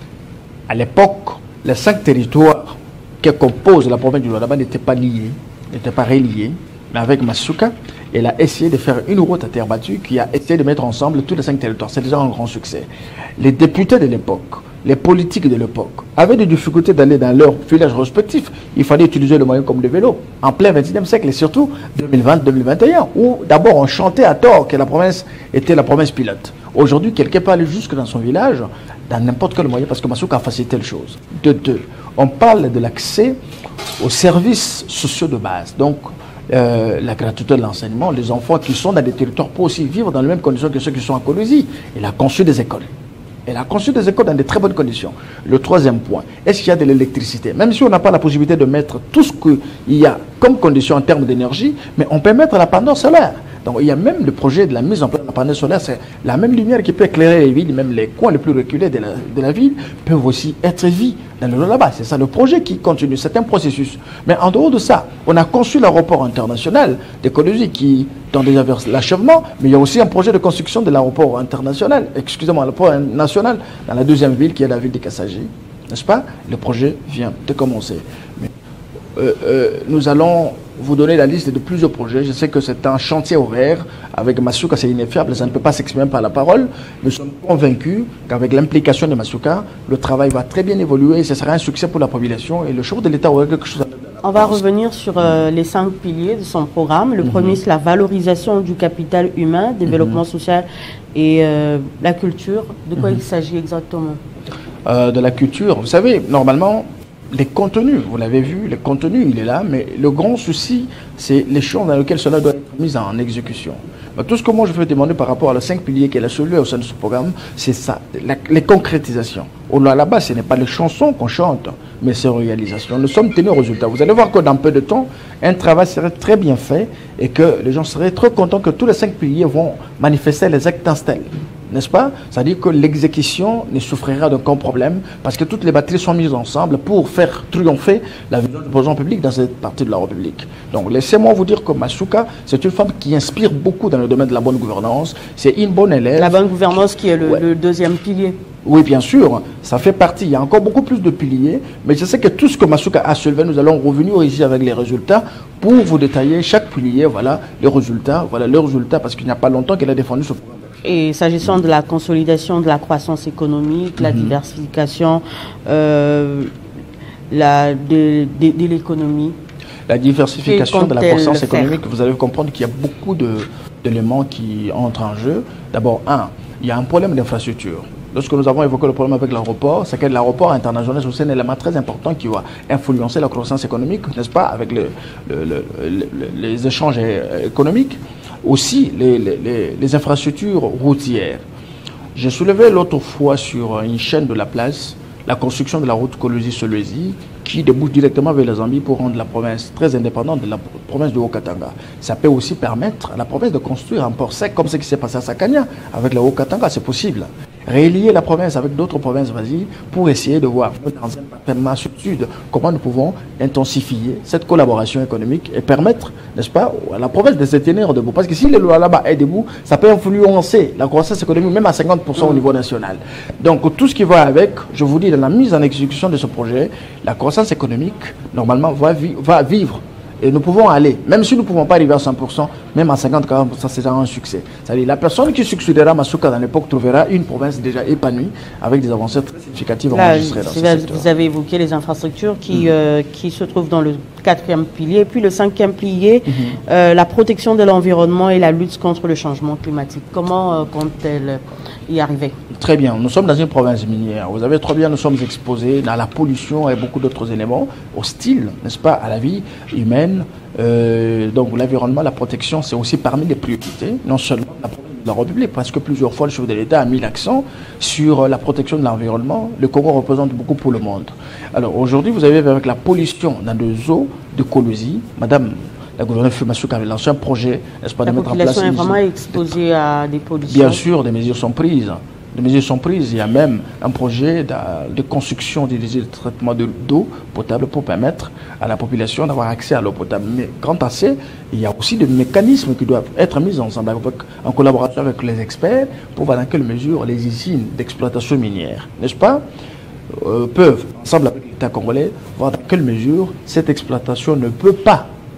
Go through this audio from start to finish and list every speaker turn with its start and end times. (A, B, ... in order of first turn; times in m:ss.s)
0:00.7-0:33.4 A
0:34.0-0:42.9 A
0:43.5-1:18.5 A
1:19.2-1:34.6 A
1:34.2-1:44.2 B
1:37.2-1:37.6 A
1:39.9-1:40.2 A
1:44.9-2:26.4 A
2:26.2-2:28.4 B
2:28.6-2:40.9 A
2:40.8-2:46.5 B
2:44.0-2:44.4 A
2:47.3-2:49.4 B
2:49.9-3:11.4 A
2:50.4-2:51.8 B
3:12.2-4:01.1 A
3:59.9-4:12.3 B
4:06.3-4:06.6 A
4:12.5-4:39.0 A
4:38.0-4:40.8 B
4:40.5-4:59.4 A
5:00.1-5:05.1 A